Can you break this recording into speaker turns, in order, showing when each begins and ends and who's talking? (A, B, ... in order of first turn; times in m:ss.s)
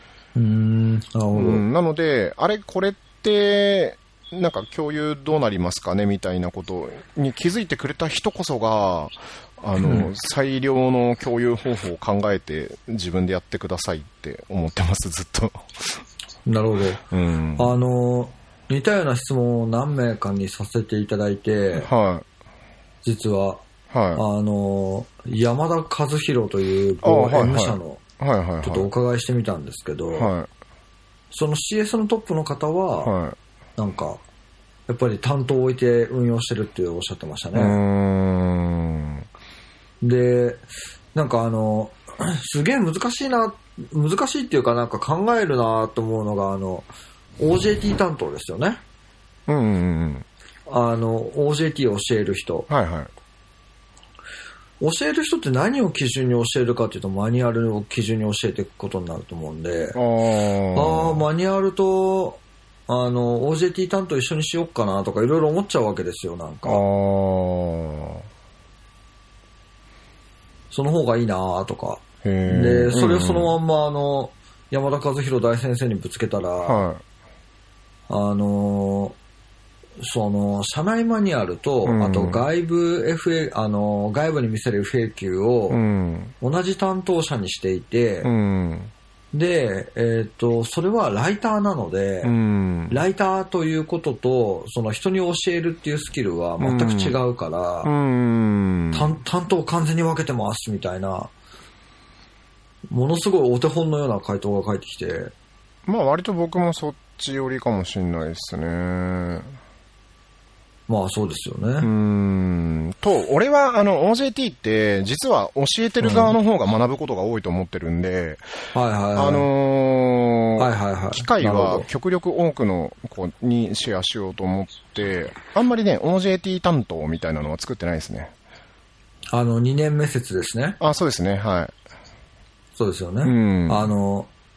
0:00.3-0:01.6 A
0:01.3-0:16.0 B
0:09.8-0:10.1 A
0:16.4-0:17.0 A
0:17.1-0:17.8 B
0:17.6-0:21.9 A
0:21.8-0:22.2 B
0:23.0-0:23.6 A
0:23.9-0:24.2 B
0:24.1-0:28.0 A
0:27.0-0:28.9 B
0:28.6-0:30.3 A
0:30.2-0:30.5 B
0:31.3-0:33.1 A
0:33.0-0:33.4 B
0:33.8-0:34.2 A
0:34.9-0:37.8 A
0:37.5-0:39.3 B
0:40.0-0:46.9 A
0:47.4-0:48.8 A
0:49.5-0:50.2 B
0:50.7-0:52.7 A
0:52.7-0:53.1 B
0:54.8-1:00.0 A
0:59.9-1:01.2 B
1:00.7-1:06.8 A
1:06.6-1:08.2 B
1:10.7-1:16.8 A
1:12.2-1:13.5 B
1:16.6-1:17.0 B
1:18.1-1:19.2 A
1:20.0-1:25.8 A
1:21.8-1:22.4 B
1:25.7-1:26.3 B
1:26.4-1:28.3 A
1:28.2-1:28.9 B
1:29.3-1:32.3 A
1:32.2-1:33.0 B
1:32.9-1:37.9 A
1:36.6-1:37.2 B
1:37.8-1:39.1 B
1:38.9-1:41.3 A
1:42.9-1:45.3 A
1:45.8-1:49.6 B
1:50.9-1:51.9 A
1:51.8-1:58.4 B
1:56.0-1:56.3 A
1:58.7-1:59.5 A
1:59.2-2:08.3 B
2:00.6-2:01.9 A
2:09.3-2:10.8 A
2:10.8-2:11.7 B
2:12.8-2:14.3 A
2:13.2-2:13.9 B